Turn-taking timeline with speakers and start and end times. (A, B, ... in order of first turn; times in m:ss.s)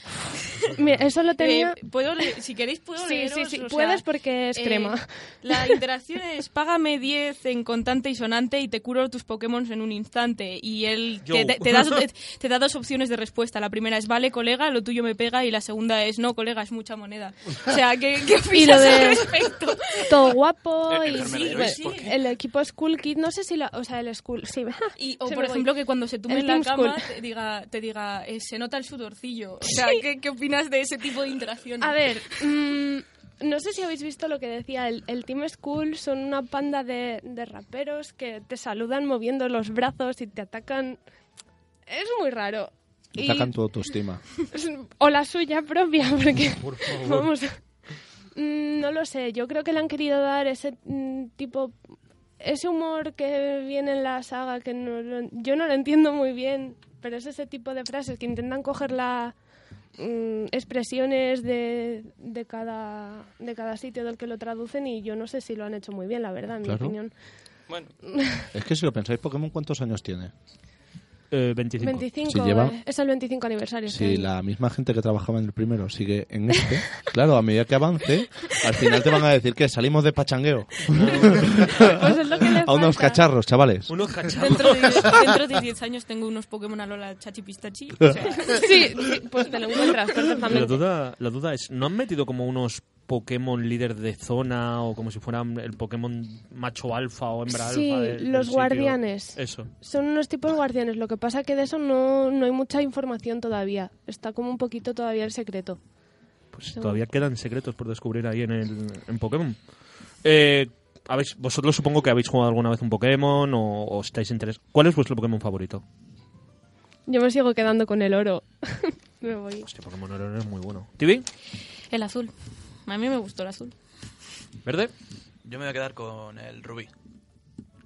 0:00.4-0:00.7 A
0:00.8-0:01.8 B
0:01.4-0:20.4 A
0:03.0-0:05.8 B
0:11.2-0:12.1 C
0:18.5-0:19.5 B
0:20.1-0:25.7 B
0:21.0-0:21.7 D
0:21.0-0:22.2 A
0:25.0-0:32.5 A
0:26.3-0:27.2 B
0:31.8-0:41.0 B
0:41.9-0:43.6 B
0:43.2-0:44.2 E
0:44.4-0:47.6 B
0:46.5-0:47.3 C
0:48.4-0:51.7 B
0:52.4-0:59.3 B
1:00.0-1:07.1 B
1:06.6-1:07.0 E
1:08.0-1:08.4 B
1:08.5-1:10.3 E
1:11.3-1:12.1 C
1:11.8-1:14.3 B
1:12.2-1:12.8 E
1:13.9-1:22.0 E
1:20.9-1:21.9 C
1:21.1-1:23.2 B
1:22.6-1:23.9 E
1:23.9-1:25.2 C
1:24.4-1:29.0 A
1:28.3-1:30.8 B
1:30.5-1:39.7 C
1:37.5-1:45.8 B
1:46.5-1:49.6 C
1:46.8-1:47.0 B
1:50.2-1:55.8 C
1:57.1-1:59.7 B
1:59.7-2:01.3 C
2:01.9-2:02.3 A
2:02.8-2:03.7 A
2:04.6-2:04.9 C
2:05.4-2:06.9 D